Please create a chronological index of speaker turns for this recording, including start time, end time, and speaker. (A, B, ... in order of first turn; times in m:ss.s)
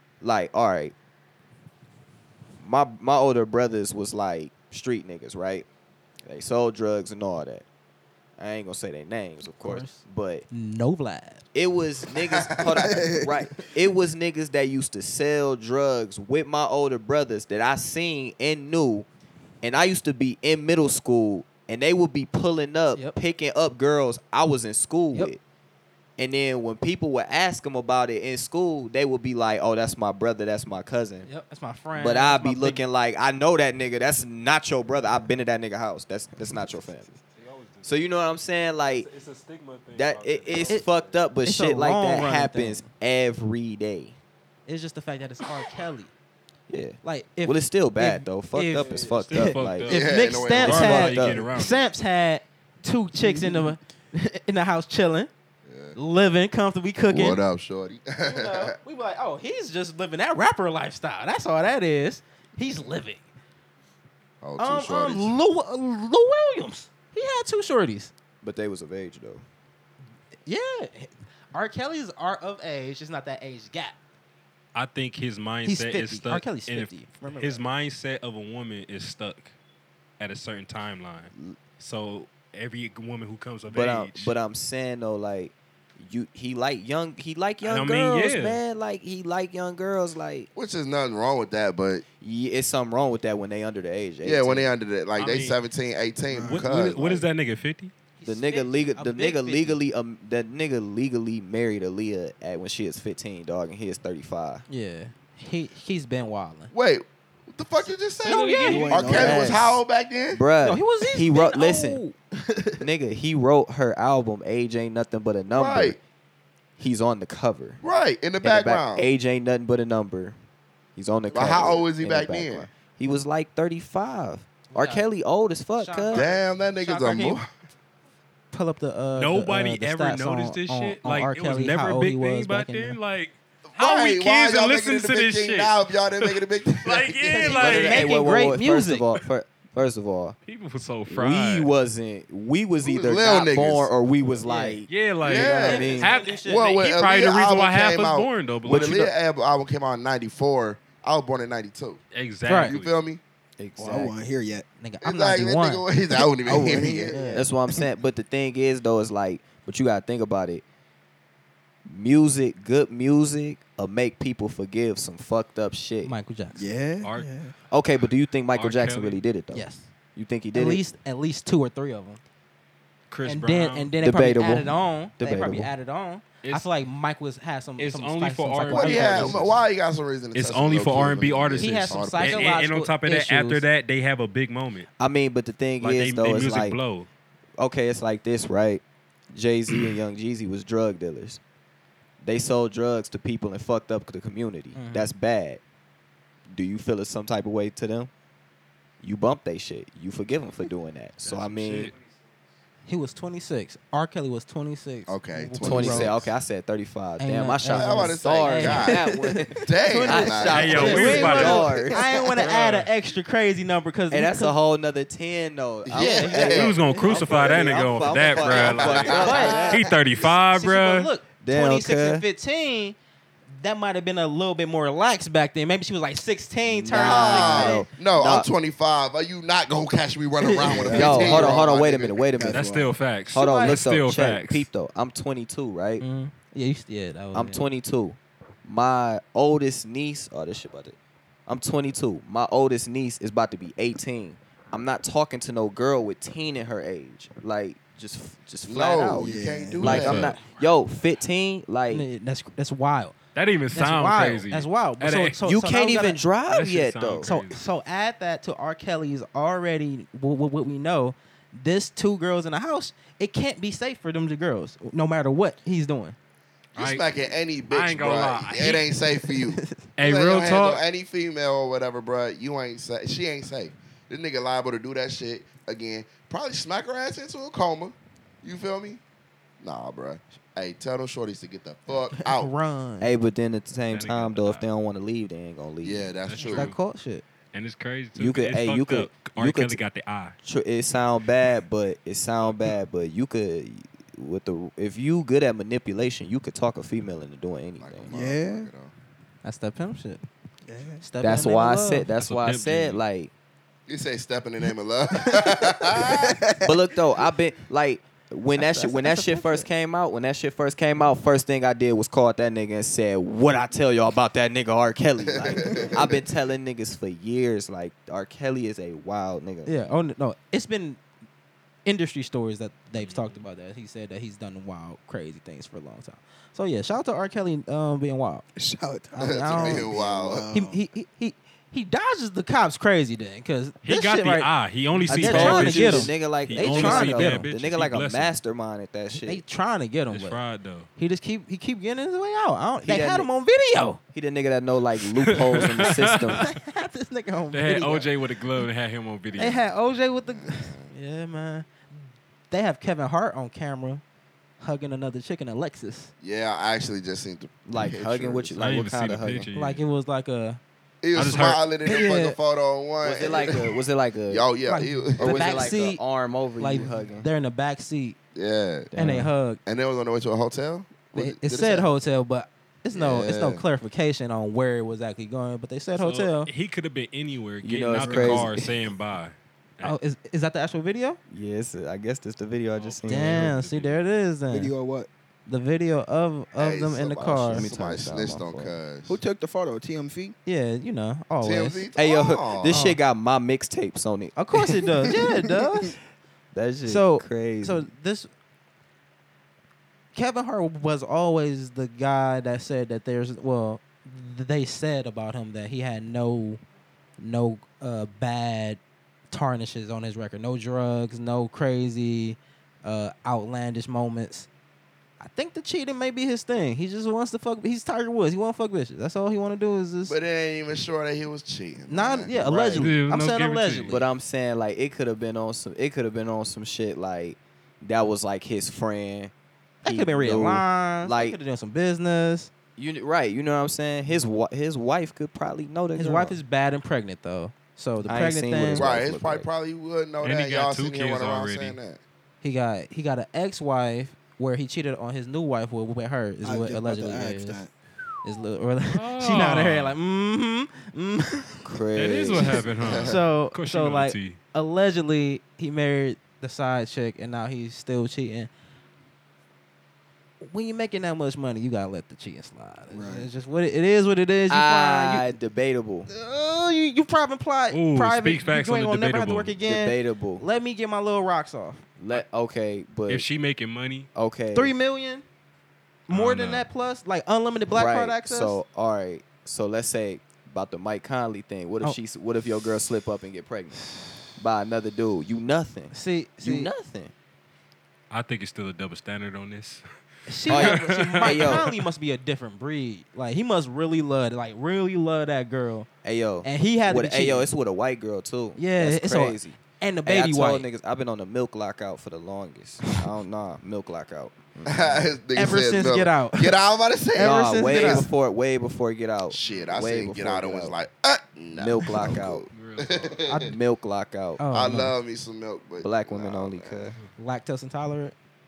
0:00.2-0:00.9 A
0:02.6-0:05.6 A
0:06.2-0:07.6 A
0:08.4-0:10.4 A
0:09.5-0:11.4 B
0:11.5-0:19.0 A
0:12.7-0:13.3 C
0:19.6-0:25.4 A
0:26.2-0:31.3 A
0:31.2-0:32.8 B
0:32.0-0:37.1 A
0:37.2-0:38.1 D
0:37.8-0:39.1 A
0:39.0-0:41.2 D
0:39.9-0:44.2 A
0:40.6-0:40.9 B
0:41.4-0:42.9 B
0:44.7-0:46.1 B
0:46.7-0:49.9 A
0:47.0-0:55.3 B
0:48.8-0:51.9 D
0:49.9-0:51.1 E
0:50.6-0:51.4 A
0:53.2-0:53.7 C
0:55.6-0:56.0 E
0:56.0-0:57.4 B
0:57.1-0:58.7 E
0:58.2-1:03.2 B
1:04.4-1:05.3 E
1:04.6-1:08.1 B
1:08.4-1:09.4 A
1:10.4-1:14.0 B
1:14.7-1:19.5 D
1:15.6-1:17.6 B
1:20.2-1:24.3 D
1:23.7-1:30.5 A
1:27.6-1:28.6 D
1:30.5-1:32.0 E
1:32.2-1:34.7 A
1:34.2-1:37.3 E
1:35.2-1:35.6 D
1:36.3-1:36.7 C
1:36.4-1:37.9 D
1:38.2-1:39.8 B
1:38.2-1:44.6 A
1:44.7-1:46.7 B
1:46.7-1:50.4 E
1:48.2-1:49.6 B
1:48.2-1:49.2 D
1:48.5-1:49.6 C
1:49.2-1:49.7 A
1:50.3-1:52.0 A
1:50.6-1:52.8 B
1:52.8-1:56.0 A
1:55.5-1:56.0 E
1:56.8-1:57.8 A
1:57.8-1:59.1 E
1:58.4-2:00.4 A
2:01.0-2:06.3 A
2:01.3-2:02.7 E
2:04.7-2:05.0 B
2:05.8-2:07.4 B
2:06.1-2:07.4 E
2:08.5-2:13.0 B
2:09.2-2:18.1 D
2:13.7-2:17.8 E
2:17.2-2:19.0 B
2:17.6-2:20.4 A
2:20.4-2:21.7 D
2:21.1-2:26.1 A
2:22.8-2:23.9 E
2:24.4-2:24.8 B
2:24.9-2:29.1 D
2:25.2-2:32.0 E
2:25.4-2:26.6 B
2:28.6-2:29.0 A
2:32.1-2:33.0 D
2:32.4-2:32.7 B
2:32.5-2:33.2 E
2:33.6-2:34.1 A
2:33.8-2:34.6 C
2:34.8-2:35.8 B
2:35.0-2:37.2 E
2:36.4-2:37.8 C
2:37.1-2:37.5 B
2:37.3-2:40.6 A
2:41.8-2:46.1 A
2:46.0-2:46.6 B
2:46.5-2:47.5 C
2:47.0-2:47.3 D
2:47.7-2:50.8 A
2:48.5-2:49.2 D
2:49.5-2:49.9 B
2:50.5-2:52.2 B
2:53.1-2:53.9 D
2:53.2-2:59.4 B
2:54.0-2:55.7 A
2:56.4-2:56.7 D
2:57.8-2:59.6 D
2:58.7-3:02.6 E
3:00.3-3:04.9 D
3:01.6-3:03.6 B
3:05.0-3:06.8 A
3:05.8-3:07.1 D
3:07.6-3:11.4 A
3:12.2-3:15.6 A
3:14.7-3:15.1 B
3:16.5-3:18.1 A
3:19.0-3:21.9 A
3:21.2-3:22.0 D
3:22.9-3:26.2 B
3:25.1-3:26.3 E
3:25.6-3:32.0 A
3:27.2-3:34.6 B
3:27.6-3:29.1 E
3:29.6-3:31.6 E
3:30.5-3:32.9 D
3:34.1-3:39.8 A
3:35.8-3:36.8 E
3:35.9-3:37.3 B
3:36.4-3:41.1 D
3:38.4-3:39.7 E
3:39.1-3:39.8 B
3:40.5-3:43.0 B
3:41.4-3:42.2 A
3:43.5-3:47.8 B
3:46.6-3:48.5 A
3:46.9-3:52.3 E
3:50.4-3:51.2 B
3:50.6-3:51.6 C
3:50.9-3:52.6 A
3:52.4-3:52.9 C
3:52.5-3:54.7 D
3:53.3-3:56.0 A
3:53.4-3:53.8 B
3:56.0-3:57.6 B
3:57.3-4:01.0 A
4:01.5-4:12.1 A
4:08.6-4:10.4 E
4:09.2-4:10.1 C
4:09.8-4:10.4 D
4:11.9-4:13.2 B
4:13.3-4:15.4 D
4:13.7-4:16.2 B
4:15.4-4:17.3 A
4:16.5-4:17.6 D
4:17.2-4:26.2 B
4:26.7-4:28.9 D
4:26.7-4:39.0 E
4:30.0-4:30.8 D
4:39.6-4:42.5 E
4:42.1-4:43.1 B
4:43.0-4:46.1 A
4:43.9-4:44.6 D
4:45.8-4:46.7 E
4:46.3-4:46.8 D
4:46.4-4:47.2 B
4:47.5-4:50.4 D
4:48.2-4:49.8 A
4:50.4-4:58.1 A
4:57.8-4:58.9 E
4:58.1-4:58.7 C
4:59.4-5:00.2 B
5:00.6-5:01.0 C
5:01.0-5:02.1 B
5:01.2-5:03.3 A
5:02.2-5:03.0 D
5:03.9-5:06.4 E
5:05.2-5:06.7 C
5:06.6-5:19.7 A
5:08.6-5:09.6 B
5:15.2-5:16.2 E
5:15.6-5:16.0 C
5:19.6-5:21.0 B
5:21.8-5:28.4 B
5:22.9-5:23.4 D
5:28.6-5:30.8 C
5:29.2-5:29.9 B
5:29.2-5:30.5 E
5:30.5-5:37.5 B
5:33.8-5:38.4 D
5:35.1-5:39.4 A
5:39.1-5:40.4 B
5:40.1-5:40.9 D
5:41.0-5:44.0 B
5:42.8-5:43.3 A
5:44.1-5:46.4 A
5:45.3-5:46.6 D
5:46.4-5:48.1 B
5:47.5-5:49.6 D
5:49.4-5:51.9 B
5:50.3-5:50.9 E
5:52.5-5:54.0 B
5:54.6-5:56.1 B
5:56.2-5:58.6 E
5:57.6-5:59.5 A
5:58.6-5:59.8 D
5:59.5-6:00.6 B
6:01.0-6:03.7 E
6:01.1-6:01.6 D
6:01.8-6:02.4 B
6:03.0-6:04.4 A
6:04.3-6:05.7 E
6:04.6-6:06.0 B
6:05.2-6:07.3 A
6:06.6-6:08.2 B
6:08.3-6:08.9 E
6:08.9-6:09.3 A
6:09.0-6:09.6 B
6:09.6-6:11.9 E
6:11.1-6:16.5 B
6:12.9-6:13.6 E
6:15.9-6:20.0 D
6:17.6-6:18.7 A
6:19.8-6:21.2 B
6:21.3-6:23.5 A
6:22.7-6:24.1 D
6:23.1-6:24.7 B
6:24.5-6:25.1 C
6:25.5-6:27.7 B
6:26.6-6:29.2 E
6:27.5-6:28.8 A
6:29.1-6:30.3 C
6:30.4-6:31.8 B
6:31.4-6:32.9 E
6:31.9-6:34.9 A
6:32.7-6:33.0 B
6:34.4-6:36.0 B
6:36.5-6:37.9 A
6:36.8-6:38.3 B
6:40.1-6:46.6 B
6:47.2-6:48.8 B
6:49.3-6:54.5 B
6:55.2-7:00.1 B
7:00.1-7:02.9 E
7:01.9-7:04.0 B
7:02.8-7:04.0 D
7:03.9-7:09.3 A
7:09.8-7:11.4 A
7:09.8-7:12.5 B
7:12.8-7:16.4 A
7:16.0-7:18.9 B
7:18.0-7:19.5 A
7:18.8-7:22.0 E
7:20.2-7:21.8 D
7:22.4-7:27.6 B
7:26.4-7:27.7 C
7:28.2-7:31.6 B
7:28.9-7:30.0 D
7:31.6-7:32.6 A
7:32.0-7:34.4 D
7:32.8-7:33.1 E
7:33.0-7:38.5 B
7:40.4-7:45.3 B
7:42.9-7:43.3 C
7:44.5-7:46.1 A
7:46.1-7:51.8 B
7:47.7-7:49.6 D
7:49.6-7:50.4 A
7:52.0-7:53.2 A
7:53.1-7:54.1 D
7:54.1-7:54.7 A
7:54.5-7:55.2 B
7:56.1-7:58.6 B
7:56.1-7:56.7 D
7:57.7-8:03.8 A
8:04.4-8:07.1 A
8:05.9-8:06.7 B
8:08.1-8:09.8 D
8:10.3-8:15.9 B
8:10.4-8:11.7 D
8:10.5-8:11.7 A
8:16.0-8:25.1 A
8:16.4-8:17.5 B
8:18.6-8:20.7 B
8:24.6-8:28.0 E
8:25.3-8:26.6 B
8:27.1-8:28.1 B
8:27.2-8:30.8 A
8:29.3-8:33.5 E
8:29.4-8:29.8 D
8:31.5-8:32.4 A
8:32.5-8:33.2 D
8:33.3-8:33.5 B
8:33.4-8:34.4 A
8:34.4-8:34.9 B
8:34.5-8:36.9 E
8:35.8-8:37.0 A
8:37.2-8:38.1 B